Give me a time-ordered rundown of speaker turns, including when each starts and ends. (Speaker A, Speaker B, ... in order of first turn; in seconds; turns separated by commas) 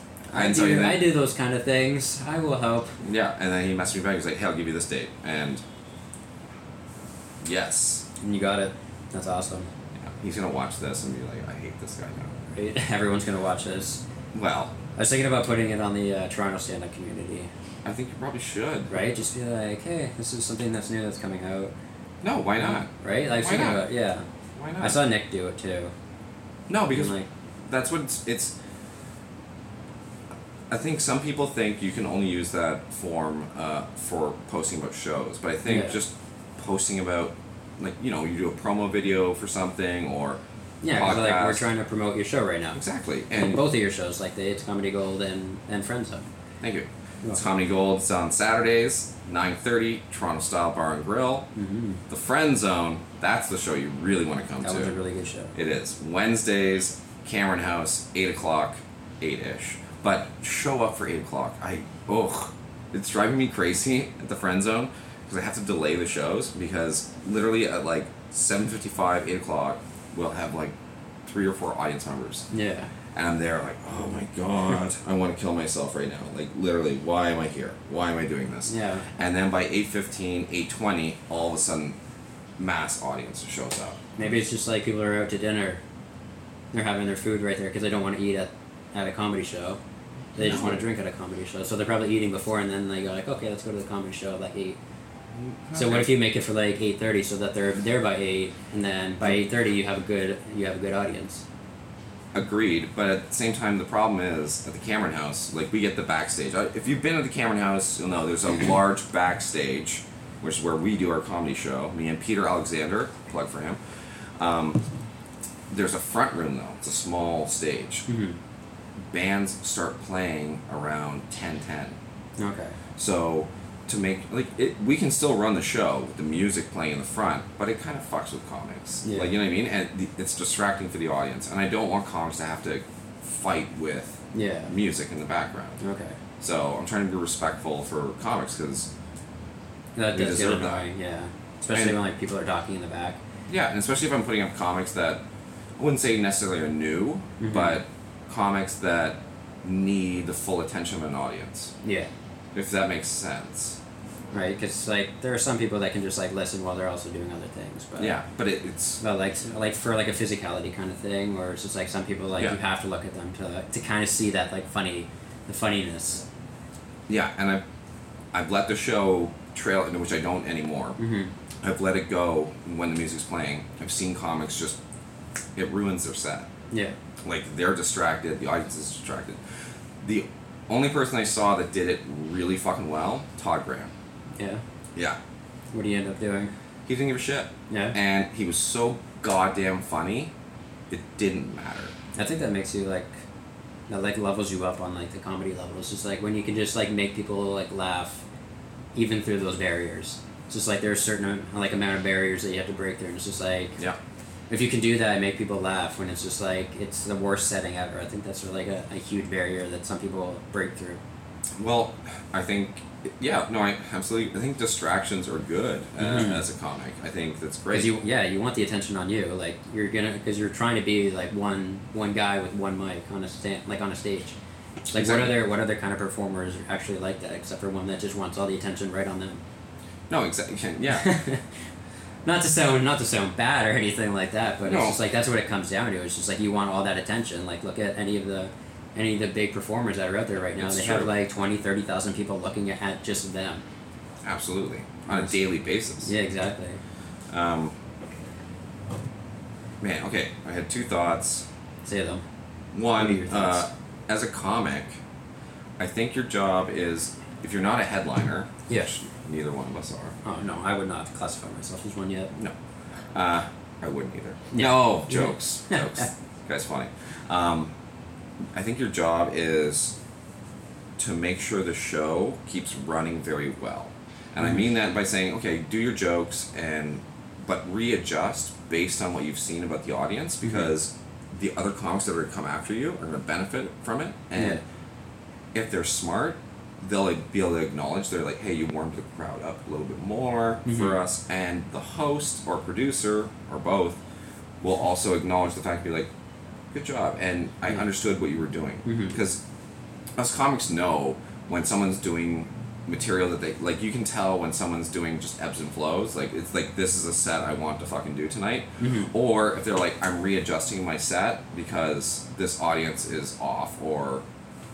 Speaker A: 0.3-1.1, Speaker B: 0.3-2.9, Speaker A: 3.0-5.6, Speaker A: 7.4-8.1, Speaker B: 8.2-9.7, Speaker A: 10.0-12.3, Speaker B: 12.6-14.0, Speaker A: 14.3-14.8, Speaker B: 14.9-17.5, Speaker A: 17.8-18.9, Speaker B: 18.9-21.7, Speaker A: 22.2-22.9, Speaker B: 22.6-24.3, Speaker A: 23.4-23.9, Speaker A: 24.6-25.0, Speaker B: 24.8-25.9, Speaker A: 26.7-28.5, Speaker B: 26.9-27.3, Speaker A: 30.7-40.4, Speaker B: 35.7-36.0, Speaker B: 40.8-42.8, Speaker A: 40.9-41.7, Speaker A: 42.8-43.7, Speaker B: 43.4-46.3, Speaker A: 46.6-51.5, Speaker B: 51.5-52.0, Speaker A: 52.1-54.9, Speaker B: 54.6-55.5, Speaker A: 55.5-72.5, Speaker B: 72.5-72.9, Speaker A: 73.1-82.0, Speaker B: 78.7-79.0, Speaker A: 82.6-84.4, Speaker B: 84.2-85.8, Speaker B: 86.7-89.8, Speaker A: 90.3-90.8, Speaker B: 90.4-94.8, Speaker A: 95.4-96.1, Speaker B: 95.8-101.4, Speaker A: 102.3-113.8, Speaker A: 114.4-114.8, Speaker A: 115.7-118.1, Speaker B: 118.1-118.4, Speaker A: 119.1-122.0, Speaker B: 122.4-122.8, Speaker A: 123.0-135.8, Speaker B: 129.0-129.3, Speaker B: 134.3-134.7, Speaker B: 135.8-136.2, Speaker A: 136.4-138.9, Speaker B: 140.0-143.2, Speaker A: 140.1-140.8, Speaker A: 141.7-142.0, Speaker A: 143.5-145.2, Speaker A: 145.8-151.7, Speaker B: 147.4-147.8, Speaker B: 151.8-152.1, Speaker A: 152.5-153.8, Speaker B: 154.3-158.2, Speaker A: 158.0-159.0, Speaker B: 159.0-166.2, Speaker A: 167.1-167.6, Speaker A: 168.3-171.0, Speaker B: 171.0-171.3, Speaker A: 171.6-174.8, Speaker A: 175.6-176.5, Speaker A: 177.2-179.4, Speaker A: 180.0-183.9, Speaker B: 184.4-184.6, Speaker B: 185.7-186.5, Speaker A: 186.9-190.3, Speaker B: 187.7-188.0, Speaker A: 190.9-191.9, Speaker B: 192.2-193.2, Speaker B: 193.9-198.2, Speaker B: 198.9-203.8, Speaker B: 204.5-211.0, Speaker A: 211.6-217.9, Speaker B: 216.0-216.4, Speaker B: 217.7-224.3, Speaker B: 224.9-229.4, Speaker A: 224.9-225.4, Speaker A: 230.1-231.1, Speaker B: 230.9-231.4, Speaker B: 232.2-243.6, Speaker A: 234.7-235.0, Speaker A: 240.6-241.1, Speaker A: 244.2-246.1, Speaker B: 245.1-245.4, Speaker B: 246.0-246.8, Speaker A: 247.3-247.7, Speaker A: 249.8-251.5, Speaker B: 251.8-252.2, Speaker A: 252.7-255.0, Speaker B: 253.0-253.7, Speaker A: 255.8-260.2, Speaker B: 260.2-262.3, Speaker A: 263.1-267.7, Speaker B: 264.5-266.1, Speaker A: 268.5-270.0, Speaker A: 271.0-284.6, Speaker B: 280.4-280.7, Speaker B: 284.4-284.6, Speaker A: 285.5-294.0, Speaker B: 290.7-291.0, Speaker A: 294.6-296.1, Speaker A: 296.7-299.4, Speaker B: 298.9-299.2, Speaker A: 300.2-314.2, Speaker B: 308.8-309.1